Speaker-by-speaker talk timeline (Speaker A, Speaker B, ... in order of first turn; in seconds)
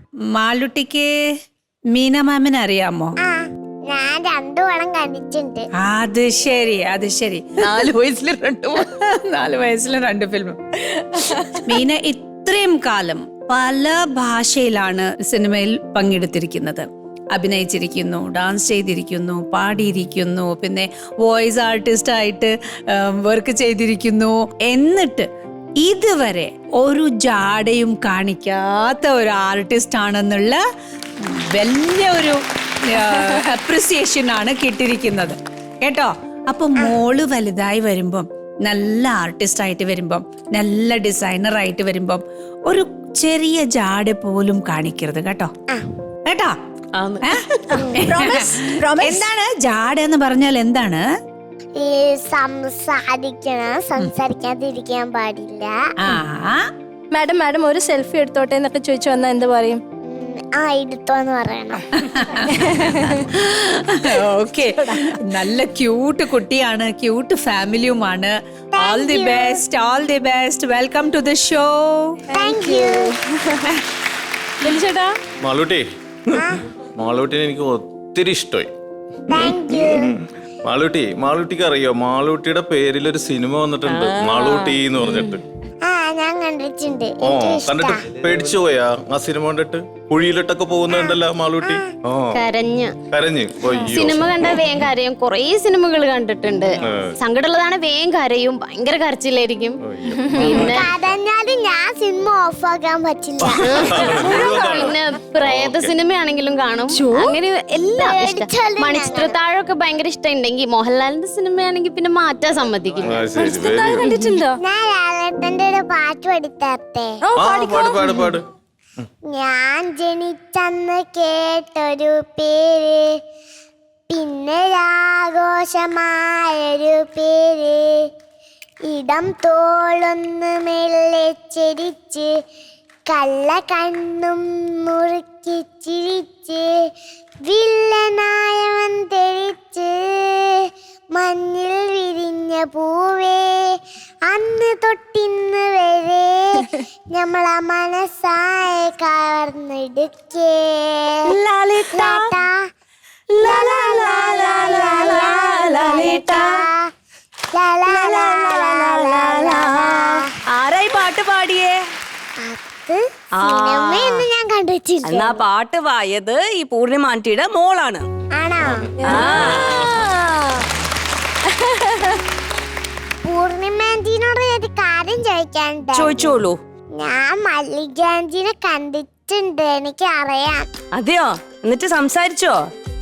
Speaker A: 0.4-1.1, 1.9-3.1, 5.8-7.9, 8.8-10.6, 11.5-25.3, 25.8-30.6, 31.2-45.5, 46.3-46.5, 47.2-51.0, 56.0-56.6, 62.0-72.2
Speaker B: 3.2-5.7, 51.8-55.8, 60.1-61.8, 68.7-69.6, 72.3-73.1, 76.3-76.6, 79.3-80.1, 85.8-88.0, 90.9-91.9, 100.5-104.1, 108.0-109.4, 114.6-117.2, 119.3-123.2, 124.1-128.1, 128.9-132.3, 133.1-136.9, 137.4-151.3, 151.9-152.6, 153.4-156.8, 157.5-160.3, 162.4-165.4, 168.4-168.9, 173.2-176.3, 177.0-180.7
Speaker C: 7.6-8.8, 11.3-11.5, 47.0-47.3, 83.9-85.3, 151.2-152.3, 153.3-156.6, 157.9-161.8, 163.4-164.3, 165.1-168.1, 169.0-169.8, 175.9-176.6, 180.9-182.7
Speaker D: 47.9-49.3, 57.1-59.8, 62.5-63.2, 64.6-65.2, 72.4-73.7, 74.6-75.2, 104.1-104.8, 106.9-107.4, 113.3-114.6, 117.2-118.3, 169.0-170.7, 171.5-172.2
Speaker E: 75.4-78.7, 79.4-85.4, 87.2-92.4, 93.1-94.8, 96.8-97.1, 99.8-100.9, 103.5-105.9, 113.0-114.2, 117.4-118.4, 168.6-170.1
Speaker F: 92.3-93.0, 93.8-100.9, 103.6-113.3